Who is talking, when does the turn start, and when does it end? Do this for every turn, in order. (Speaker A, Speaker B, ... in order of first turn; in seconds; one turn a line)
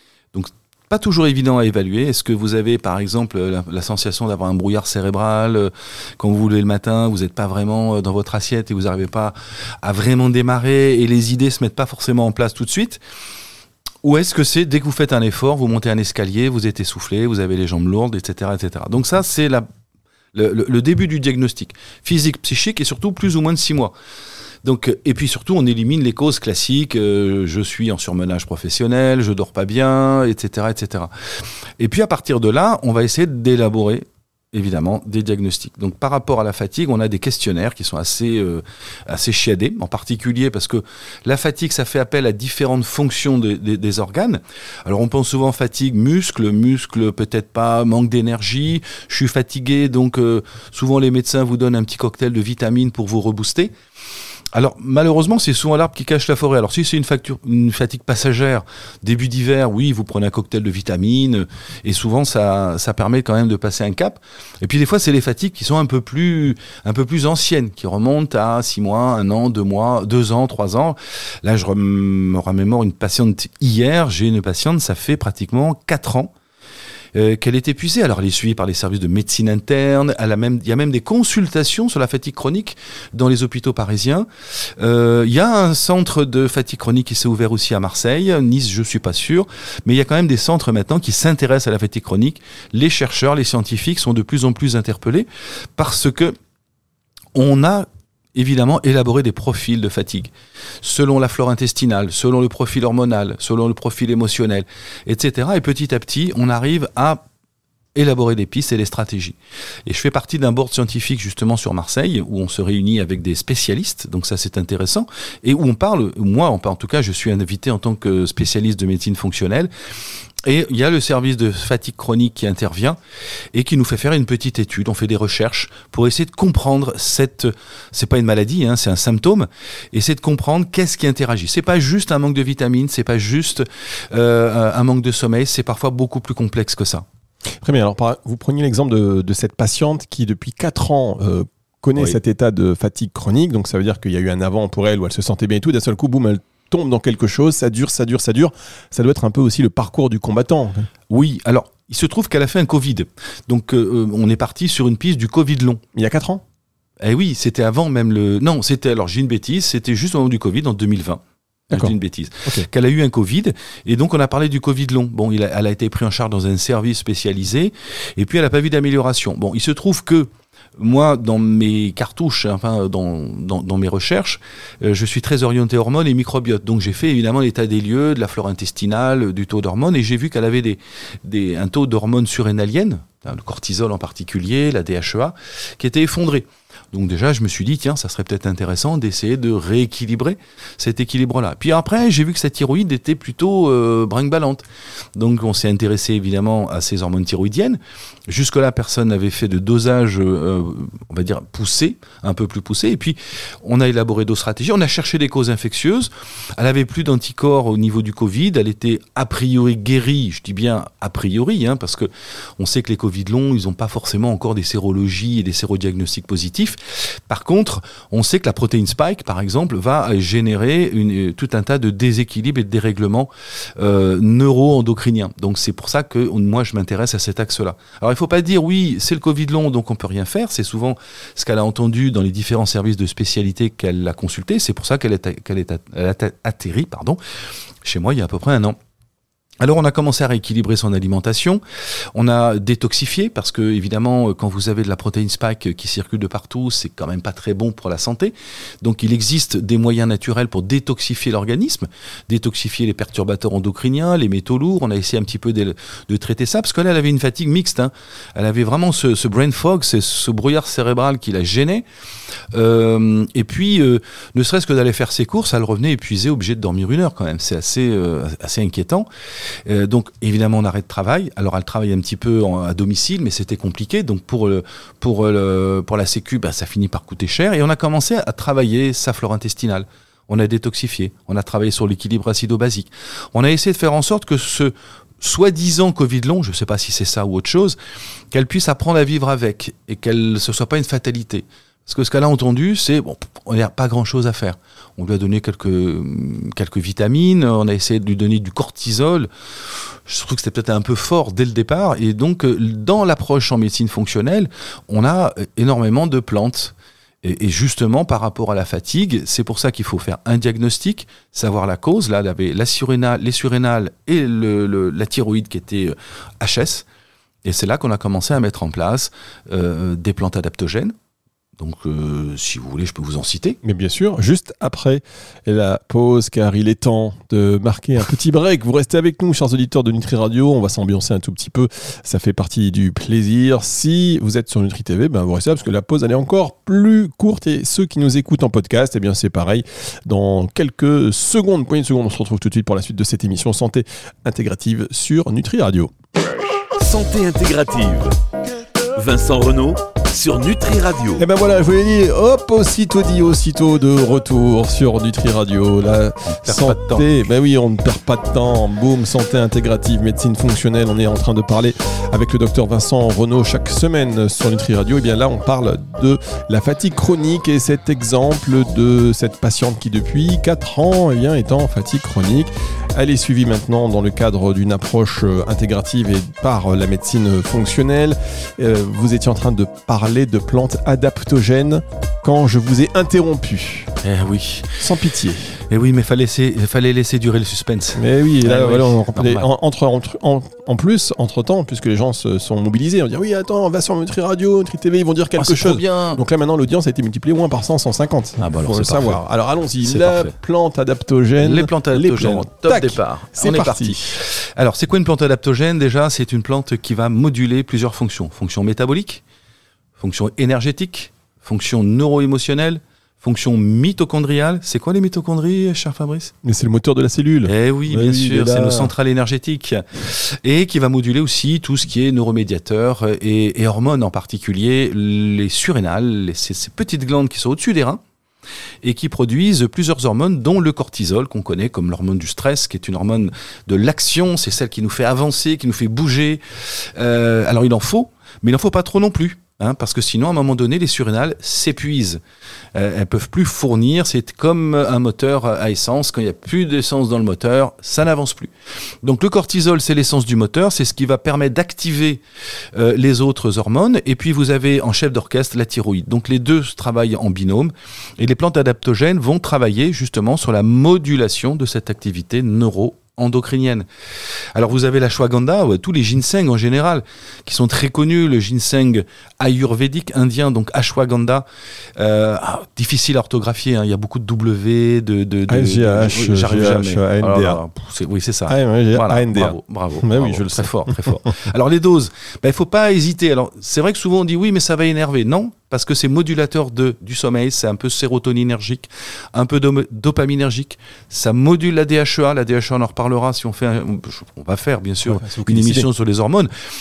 Speaker A: 0.3-13.0
Speaker A: 14.0-19.7
Speaker A: 20.3-23.9
Speaker A: 24.6-31.1
Speaker A: 31.8-53.7
Speaker A: 54.5-76.3
Speaker A: 77.1-96.3
Speaker A: 97.3-107.2
Speaker A: 107.9-119.7
Speaker A: 120.4-123.0
Speaker A: 123.5-137.0
Speaker B: 137.6-150.9
Speaker A: 151.1-155.8
Speaker B: 155.9-156.4
Speaker A: 157.0-194.6
Speaker B: 161.7-162.7
Speaker A: 195.2-237.2
Speaker A: 237.8-238.8
Speaker A: 239.6-241.6
Speaker A: 242.1-261.8
Speaker A: 262.5-269.1
Speaker A: 269.6-287.8
Speaker A: 288.3-299.3
Speaker A: 300.1-316.9
Speaker A: 317.4-320.9
Speaker A: 321.6-323.6
Speaker B: 323.6-345.9
Speaker C: 346.8-348.1
Speaker C: 348.9-351.2
Speaker B: 351.2-383.9
Speaker A: 356.2-357.1
Speaker A: 384.0-384.8
Speaker B: 384.8-385.6
Speaker A: 385.7-389.5
Speaker B: 387.9-404.1
Speaker A: 395.4-396.2
Speaker A: 398.4-399.2
Speaker A: 399.8-400.3
Speaker A: 401.4-409.2
Speaker A: 410.0-416.3
Speaker B: 416.4-418.9
Speaker A: 417.4-428.0
Speaker A: 428.8-442.2
Speaker A: 442.7-448.5
Speaker A: 449.0-452.2
Speaker A: 452.7-463.9
Speaker A: 464.5-471.4
Speaker A: 471.9-496.5
Speaker B: 475.5-477.6
Speaker B: 478.5-481.1
Speaker B: 495.1-495.9